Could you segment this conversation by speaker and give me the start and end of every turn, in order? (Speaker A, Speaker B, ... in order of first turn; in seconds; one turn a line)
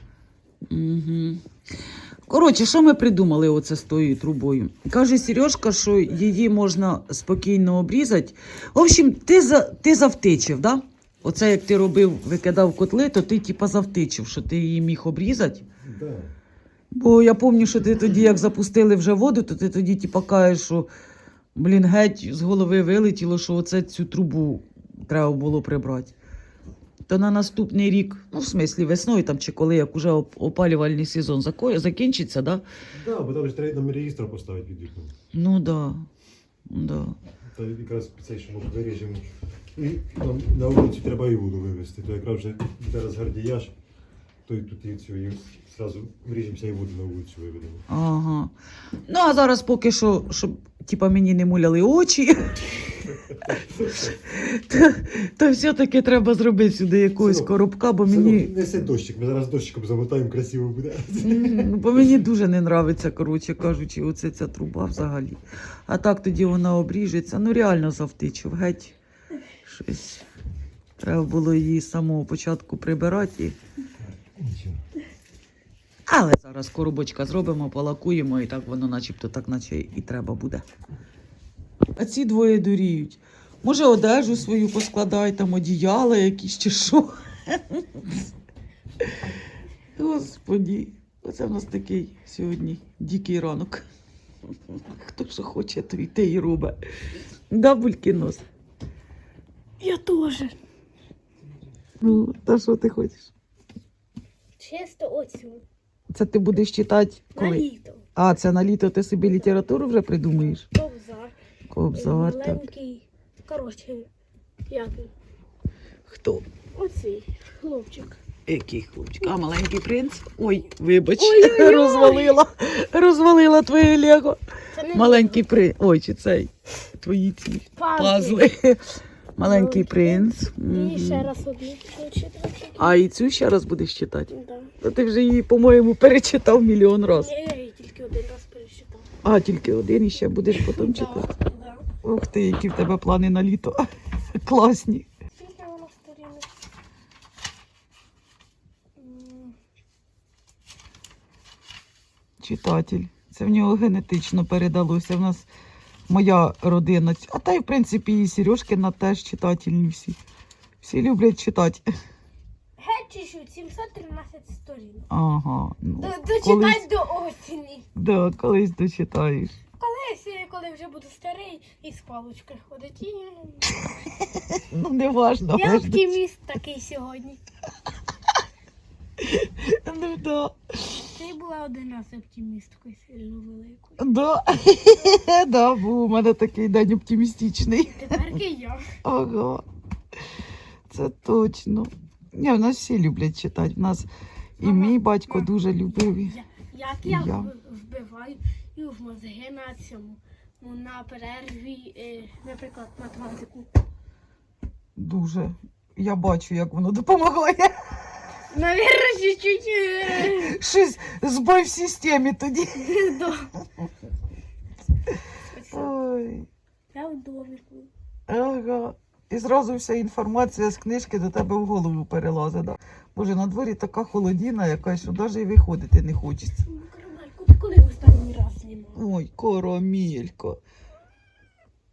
Speaker A: 0.7-1.4
Speaker A: 2.3-15.7
Speaker B: 15.8-16.3
Speaker A: 16.9-20.9
Speaker A: 21.6-26.1
Speaker A: 27.1-32.6
Speaker B: 33.0-35.1
Speaker A: 35.3-36.1
Speaker A: 36.7-37.2
Speaker B: 37.5-43.8
Speaker B: 44.5-47.8
Speaker A: 47.9-48.5
Speaker A: 49.1-52.6
Speaker B: 53.3-54.2
Speaker A: 54.1-58.5
Speaker B: 57.2-57.5
Speaker B: 58.1-61.7
Speaker A: 61.2-69.0
Speaker A: 69.6-70.2
Speaker A: 71.0-73.6
Speaker B: 74.3-74.8
Speaker A: 76.1-80.6
Speaker A: 82.0-88.0
Speaker A: 90.0-93.9
Speaker A: 94.7-96.8
Speaker A: 97.5-98.5
Speaker C: 99.8-100.6
Speaker A: 102.0-103.3
Speaker C: 104.6-105.6
Speaker A: 106.1-110.7
Speaker C: 107.4-108.0
Speaker C: 110.3-111.3
Speaker A: 111.7-112.6
Speaker C: 111.9-114.1
Speaker C: 114.7-115.1
Speaker A: 116.1-116.5
Speaker C: 116.8-118.2
Speaker A: 118.5-124.4
Speaker C: 121.2-122.4
Speaker C: 124.8-125.4
Speaker A: 124.9-128.8
Speaker C: 127.8-128.4
Speaker A: 129.4-131.3
Speaker C: 129.5-132.9
Speaker A: 132.8-137.3
Speaker C: 134.3-134.7
Speaker C: 137.2-139.1
Speaker A: 139.2-141.3
Speaker C: 140.5-141.8
Speaker A: 142.0-145.1
Speaker C: 145.4-146.5
Speaker C: 149.0-149.6
Speaker A: 152.4-155.5
Speaker A: 156.1-160.2
Speaker A: 160.8-161.8
Speaker C: 162.8-165.1
Speaker A: 165.1-166.8
Speaker C: 166.0-167.9
Speaker A: 168.0-169.6
Speaker C: 169.8-173.8
Speaker A: 174.4-176.1
Speaker C: 175.6-177.4
Speaker A: 179.2-180.6
Speaker C: 181.2-184.0
Speaker A: 184.0-188.2
Speaker C: 187.9-188.9
Speaker A: 189.0-189.6
Speaker A: 190.9-194.1
Speaker C: 194.6-195.5
Speaker A: 194.6-196.4
Speaker C: 196.1-203.7
Speaker A: 197.1-197.5
Speaker A: 205.0-207.8
Speaker C: 208.5-210.6
Speaker A: 210.2-212.9
Speaker C: 212.8-213.5
Speaker C: 215.5-215.9
Speaker A: 215.7-216.5
Speaker C: 216.9-217.9
Speaker A: 218.3-226.6
Speaker C: 226.6-229.0
Speaker A: 229.0-230.6